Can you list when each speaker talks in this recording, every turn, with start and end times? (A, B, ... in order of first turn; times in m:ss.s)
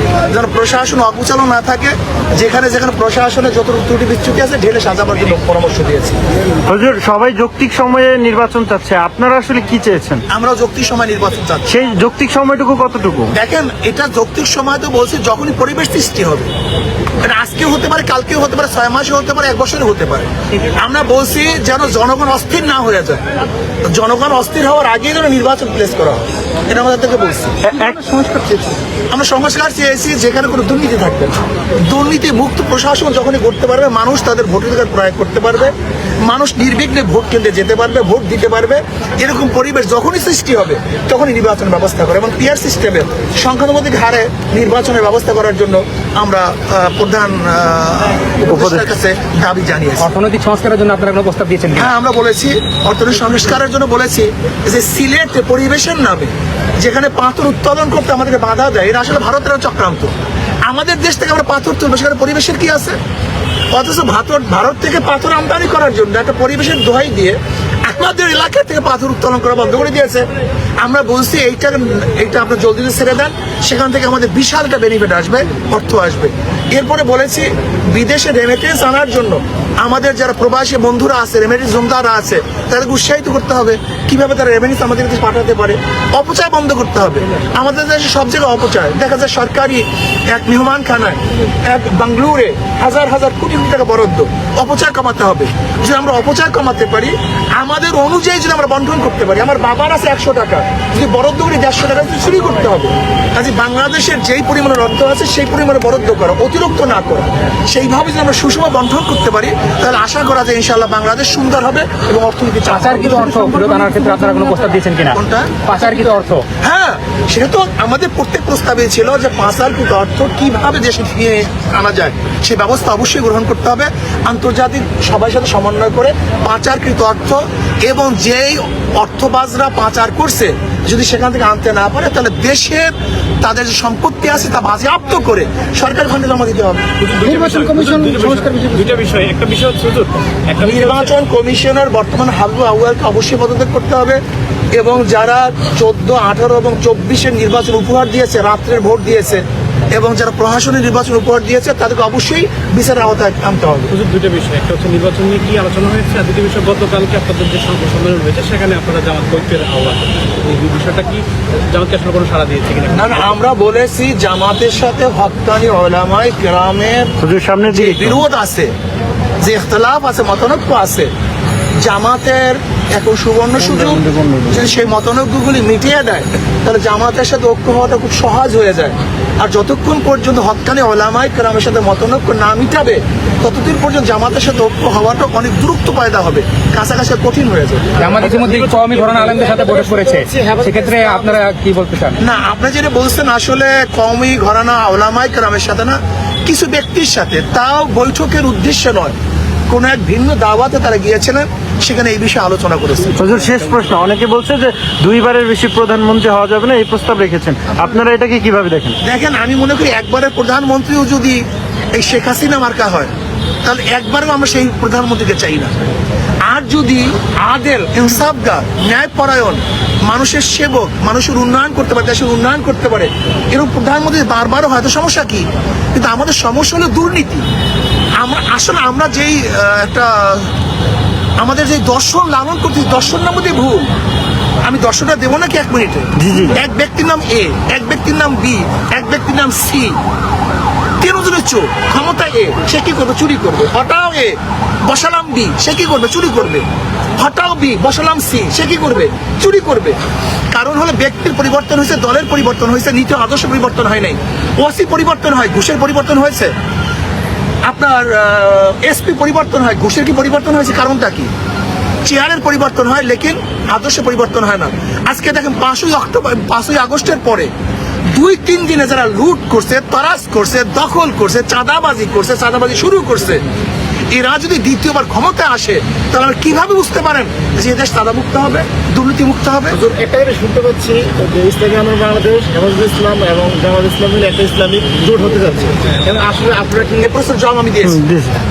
0:00.3-0:06.2 A
0:06.7-0:10.2 B
0:10.3-0:11.7 A
0:11.7-0:13.3 B
0:13.3-0:16.5 A
0:17.2-0:23.2 A
0:23.8-0:27.6 A
0:27.6-0:28.0 B
0:27.8-0:28.8 C
0:29.1-0:35.7 A
0:36.2-0:50.1 A
0:48.5-0:48.8 B
0:50.0-0:51.9 C
0:51.7-1:00.1 A
1:00.7-1:03.0 A
1:03.7-1:10.3 A
1:10.8-2:16.8 A
1:52.6-1:56.5 C
2:17.0-2:21.1 D
2:17.2-2:18.9 C
2:20.6-2:24.2 A
2:24.7-2:33.9 A
2:33.9-2:43.3 D
2:42.9-2:47.1 A
2:47.2-2:48.2 B
2:47.7-2:48.7 A
2:49.4-2:51.1 A
2:51.8-3:08.0 A
2:53.6-2:54.4 B
3:08.0-3:12.2 C
3:08.2-3:09.4 D
3:09.4-3:11.4 E
3:12.2-3:19.1 A
3:19.7-3:23.2 A
3:23.2-3:29.0 B
3:29.0-3:33.1 A
3:33.6-3:35.7 A
3:36.4-3:47.4 A
3:48.2-3:50.5 A
3:51.4-3:53.9 A
3:54.6-4:00.0 A
3:56.2-3:56.6 B
4:01.0-4:06.6 A
4:07.2-4:10.0 A
4:10.5-4:16.5 A
4:17.6-4:21.3 A
4:22.0-4:27.5 A
4:28.1-4:33.4 A
4:34.1-4:39.8 A
4:39.7-4:47.1 E
4:47.0-4:48.0 A
4:47.8-4:48.3 B